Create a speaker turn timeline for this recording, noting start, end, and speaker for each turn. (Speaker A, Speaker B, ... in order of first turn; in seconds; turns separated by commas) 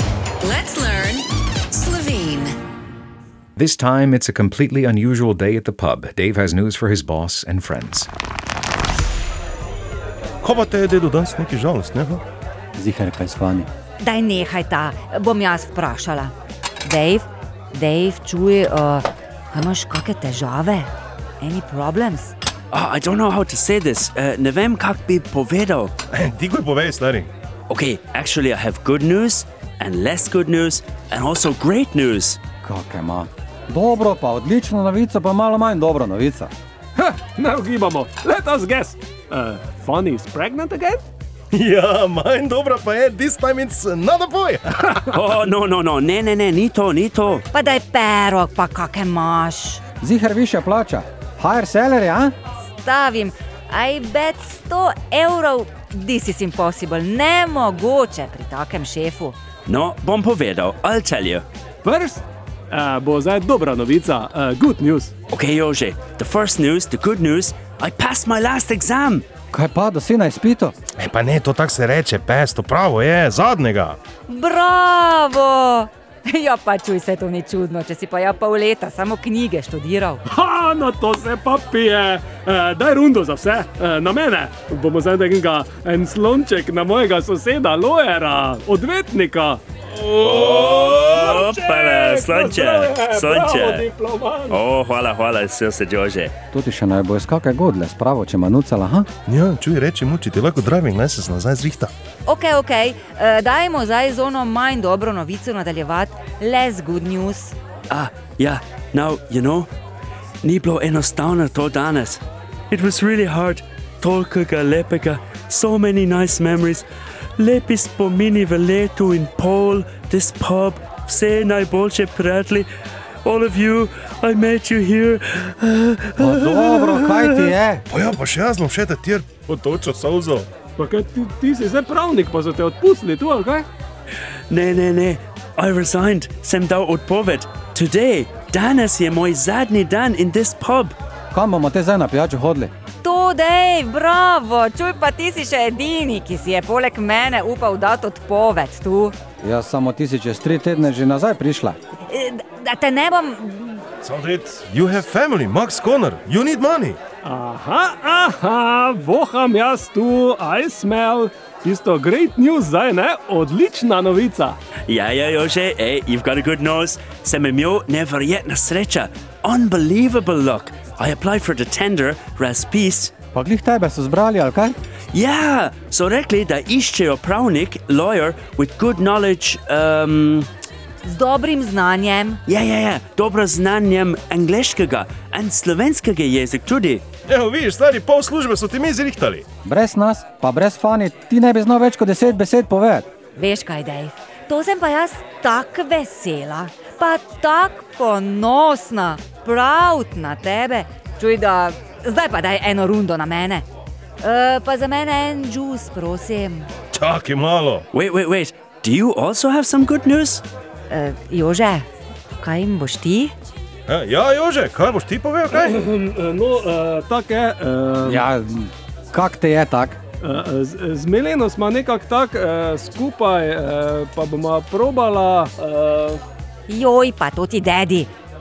Speaker A: 0.4-2.5, Speaker B: 3.6-8.1, Speaker C: 10.4-12.2, Speaker D: 12.8-13.7, Speaker E: 14.0-16.3, Speaker E: 16.8-22.3, Speaker F: 22.7-25.9, Speaker C: 26.1-27.3, Speaker F: 27.7-32.4, Speaker D: 32.6-36.5, Speaker G: 37.0-41.0, Speaker C: 41.5-45.0, Speaker F: 45.1-47.4, Speaker E: 47.5-49.8, Speaker D: 50.0-52.3, Speaker E: 52.8-59.4, Speaker F: 59.7-61.4, Speaker G: 61.8-65.1, Speaker F: 65.3-69.2, Speaker D: 69.5-70.7, Speaker C: 71.0-74.0, Speaker E: 74.3-80.2, Speaker G: 80.3-89.6, Speaker F: 90.1-93.9, Speaker C: 90.2-91.1, Speaker G: 91.1-94.6, Speaker F: 94.5-96.3, Speaker D: 96.5-99.1, Speaker C: 99.3-101.9, Speaker E: 102.2-107.5, Speaker F: 107.9-109.7, Speaker F: 110.4-116.8, Speaker F: 117.4-122.7, Speaker F: 123.2-127.5, Speaker D: 126.2-127.8, Speaker C: 127.9-130.5, Speaker G: 130.8-133.7, Speaker F: 134.5-140.9, Speaker D: 141.3-142.7, Speaker E: 143.0-149.1, Speaker D: 149.4-151.8, Speaker E: 152.1-153.8, Speaker C: 154.0-157.0, Speaker G: 157.2-164.6, Speaker F: 164.9-173.1, Speaker D: 173.3-174.8, Speaker F: 175.1-180.5, Speaker E: 181.0-182.4, Speaker F: 182.4-187.0, Speaker C: 187.3-189.4, Speaker D: 189.6-193.1, Speaker E: 193.3-203.7, Speaker E: 204.2-206.7, Speaker C: 206.9-207.8, Speaker F: 207.9-210.4, Speaker E: 210.9-211.8, Speaker E: 212.4-213.3, Speaker C: 213.9-215.8, Speaker G: 215.6-218.2, Speaker D: 218.1-220.0, Speaker G: 220.2-226.2, Speaker E: 226.7-228.1